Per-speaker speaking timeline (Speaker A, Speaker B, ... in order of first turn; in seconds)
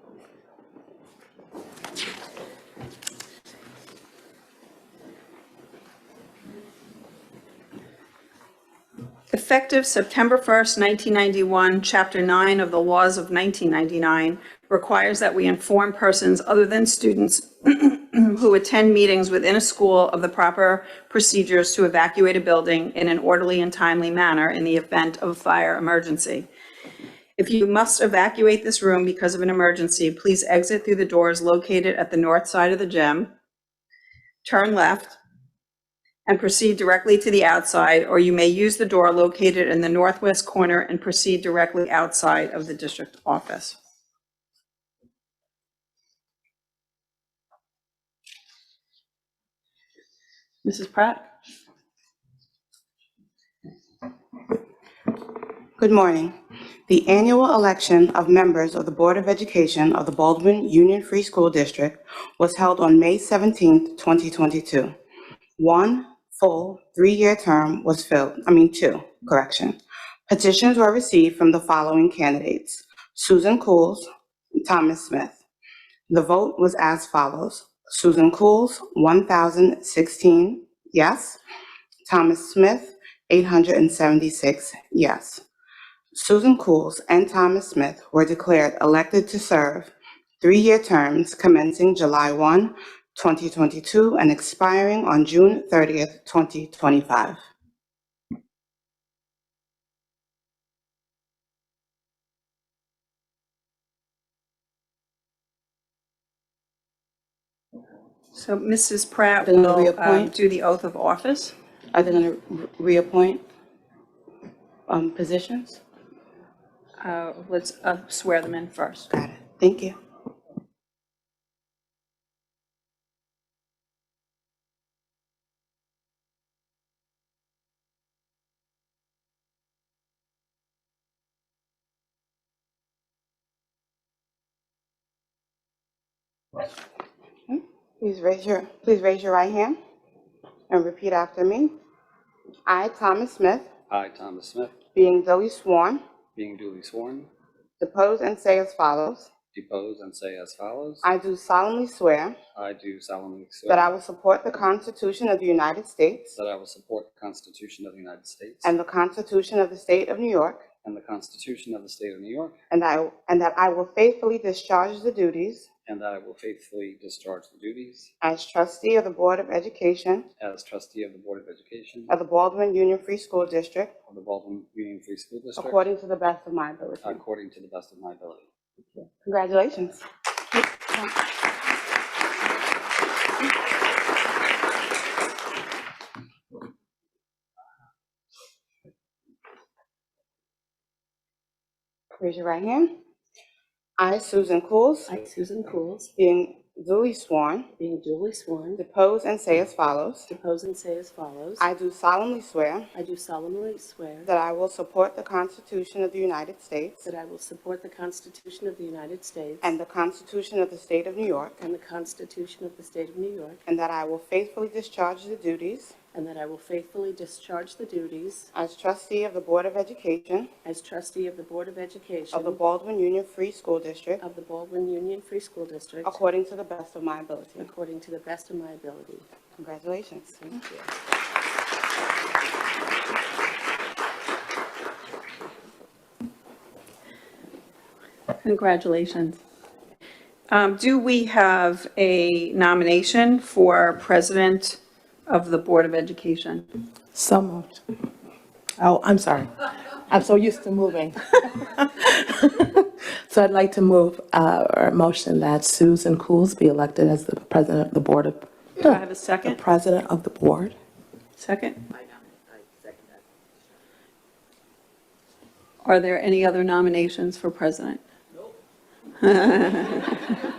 Speaker A: 9.3-26.5, 27.4-33.3, 34.4-35.2, 36.2-43.8, 108.3-111.6, 117.0-119.1, 238.4-239.4, 240.5-246.7, 258.9-259.6, 261.4-261.8, 265.8-268.0, 269.2-270.4
Speaker B: 50.6-51.2, 195.1-196.1, 197.8-198.8, 200.3-201.6, 202.9-204.3, 207.1-209.8, 211.6-213.6, 216.1-218.5, 220.7-222.6, 224.2-226.2, 227.6-229.3
Speaker C: 55.8-56.4, 56.9-64.9, 65.6-74.1, 74.6-75.4, 76.1-81.4, 82.1-85.4, 86.1-97.4, 109.4-110.3, 111.9-113.4, 114.9-115.8, 119.1-120.0, 137.5-139.8, 140.7-141.7, 142.7-143.7, 144.9-146.0, 147.8-149.3, 151.0-152.4, 153.7-156.3, 158.6-160.6, 162.7-165.7, 168.2-170.3, 172.1-173.9, 175.6-177.2, 178.9-180.1, 192.2-192.9, 194.0-195.1, 196.2-197.7, 198.8-200.3, 201.6-202.9, 204.2-207.1, 209.6-211.6, 213.7-215.9, 218.5-220.5, 222.3-224.2, 226.1-227.7, 229.6-230.6
Speaker D: 143.9-144.8, 146.4-147.3, 149.5-151.1, 152.6-153.9, 156.3-158.7, 160.8-162.6, 165.9-168.1, 170.4-172.1, 174.1-175.9, 177.0-178.5
Speaker E: 247.1-247.8, 248.8-260.8